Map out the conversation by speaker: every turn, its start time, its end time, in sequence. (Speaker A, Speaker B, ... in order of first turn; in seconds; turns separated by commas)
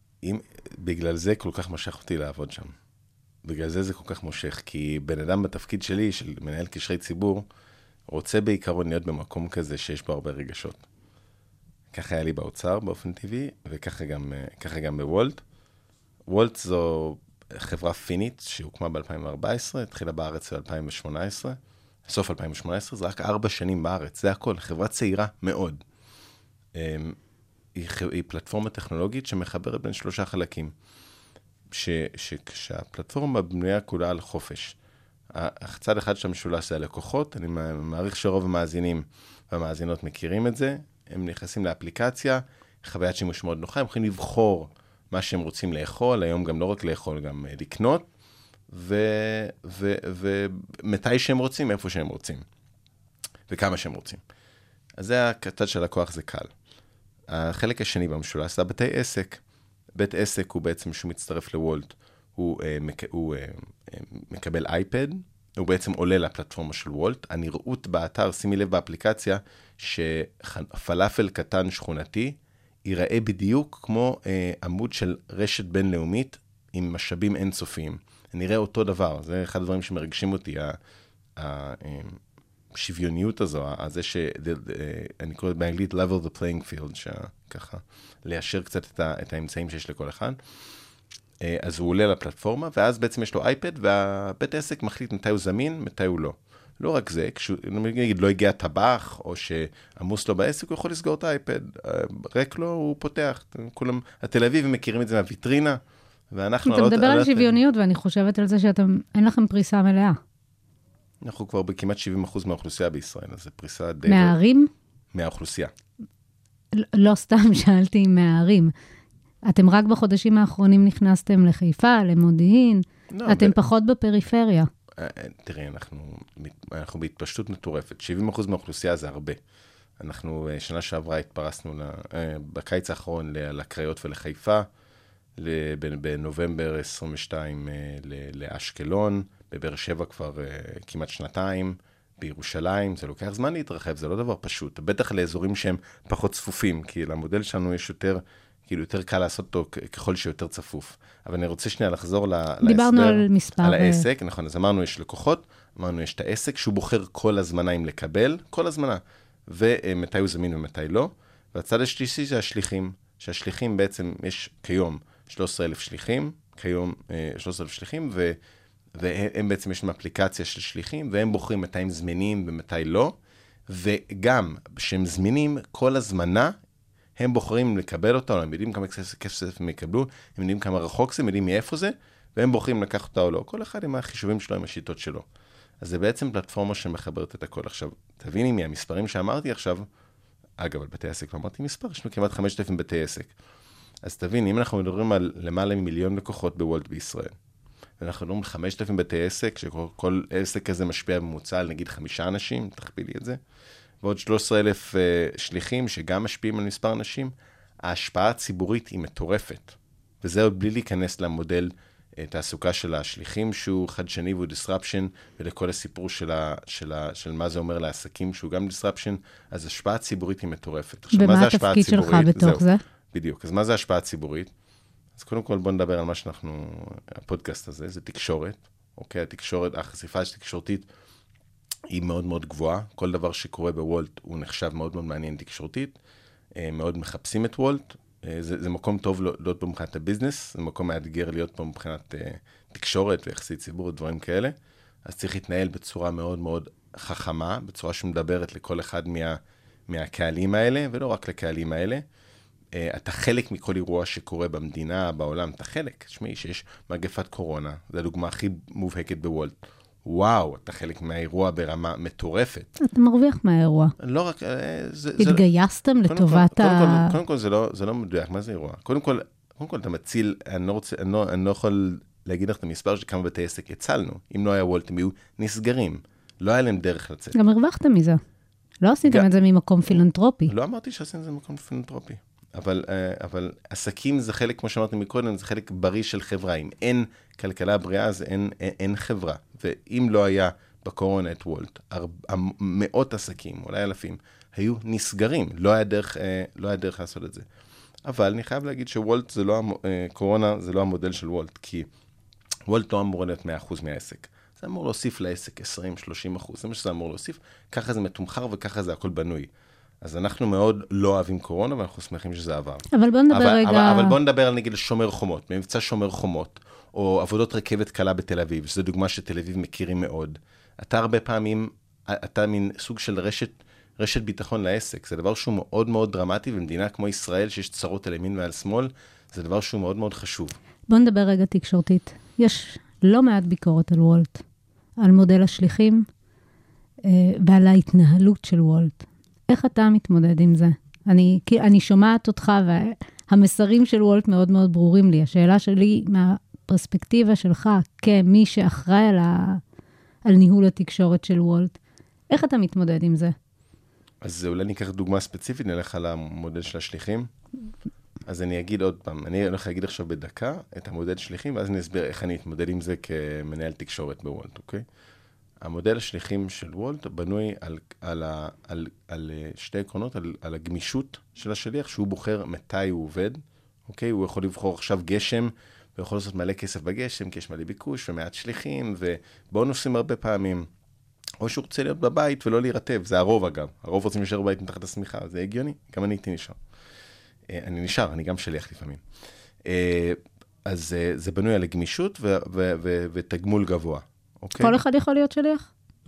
Speaker A: 0.2-2.7, Speaker A: 3.4-7.5, Speaker A: 8.1-10.9, Speaker A: 11.9-15.4, Speaker A: 16.2-25.8, Speaker A: 26.7-27.2, Speaker A: 27.8-30.7, Speaker A: 31.7-34.8, Speaker A: 35.3-48.1, Speaker A: 48.7-52.4, Speaker A: 53.5-54.2, Speaker A: 55.0-56.5, Speaker A: 57.3-59.4, Speaker A: 60.0-80.8, Speaker A: 81.4-82.2, Speaker A: 82.7-90.4, Speaker A: 91.4-107.6, Speaker B: 106.7-110.2, Speaker A: 111.2-114.4, Speaker B: 114.1-114.7, Speaker A: 115.1-115.7, Speaker B: 116.7-118.7, Speaker B: 119.5-124.7, Speaker A: 123.1-123.6, Speaker A: 125.0-129.4, Speaker A: 130.0-134.7, Speaker A: 135.4-168.4, Speaker B: 152.6-154.1, Speaker A: 169.0-173.2, Speaker A: 173.7-176.6, Speaker A: 177.2-185.3, Speaker A: 185.8-189.9, Speaker A: 190.6-193.3, Speaker A: 194.0-197.3, Speaker A: 198.0-203.4, Speaker A: 204.0-224.5, Speaker B: 221.1-222.8, Speaker A: 225.2-230.9, Speaker A: 231.9-236.0, Speaker A: 236.6-252.0, Speaker A: 252.7-262.7, Speaker B: 262.8-263.9, Speaker A: 264.0-265.5, Speaker B: 265.2-267.1, Speaker A: 266.1-277.4, Speaker B: 277.3-278.2, Speaker B: 278.8-280.5, Speaker A: 279.9-297.5, Speaker A: 298.1-301.9, Speaker A: 302.7-309.5, Speaker A: 310.0-330.6, Speaker B: 312.9-314.1, Speaker B: 330.9-334.4, Speaker B: 335.0-336.1, Speaker B: 337.1-349.6, Speaker B: 350.2-351.8, Speaker B: 352.3-353.3, Speaker A: 354.2-357.3, Speaker A: 358.3-364.9, Speaker A: 365.6-380.7, Speaker A: 381.4-386.6, Speaker A: 387.5-389.0, Speaker A: 389.6-394.8, Speaker B: 394.6-395.7